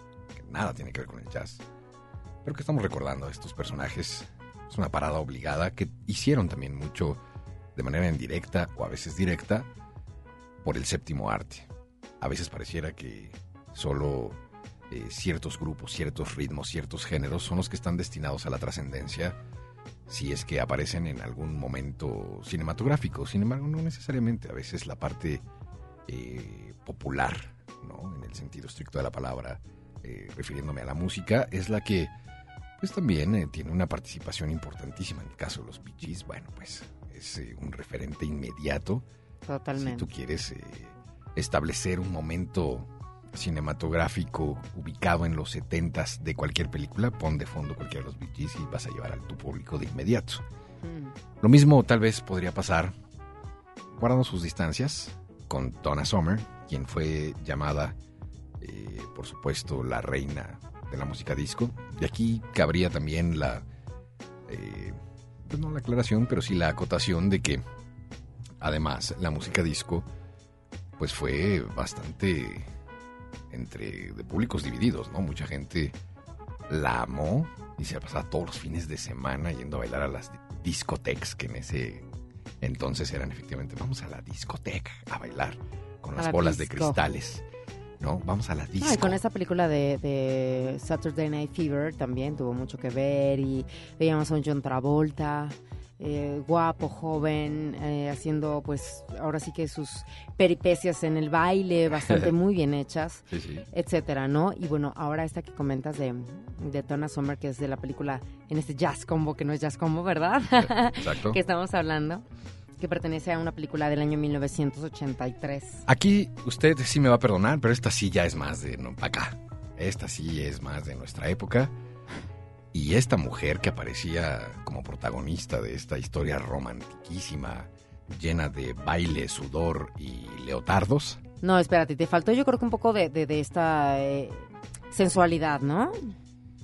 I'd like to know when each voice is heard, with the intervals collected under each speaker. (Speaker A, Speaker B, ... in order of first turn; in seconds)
Speaker A: 0.3-1.6, 2.4-7.2, 7.7-9.7, 10.6-11.7, 12.2-14.4, 14.9-19.4, 20.1-25.4, 26.1-32.1, 32.8-39.0, 39.8-50.4, 51.4-52.9, 53.9-58.0, 58.6-63.6, 64.5-67.6, 68.6-70.1, 71.0-72.7, 73.5-76.0, 76.7-82.0, 82.6-87.4, 88.0-89.2, 102.1-102.3, 103.3-103.6, 110.7-111.4, 115.9-121.7, 122.7-131.2
Speaker B: 39.5-40.1, 50.8-51.1, 86.2-87.0, 88.8-112.2, 112.8-115.8, 131.4-136.1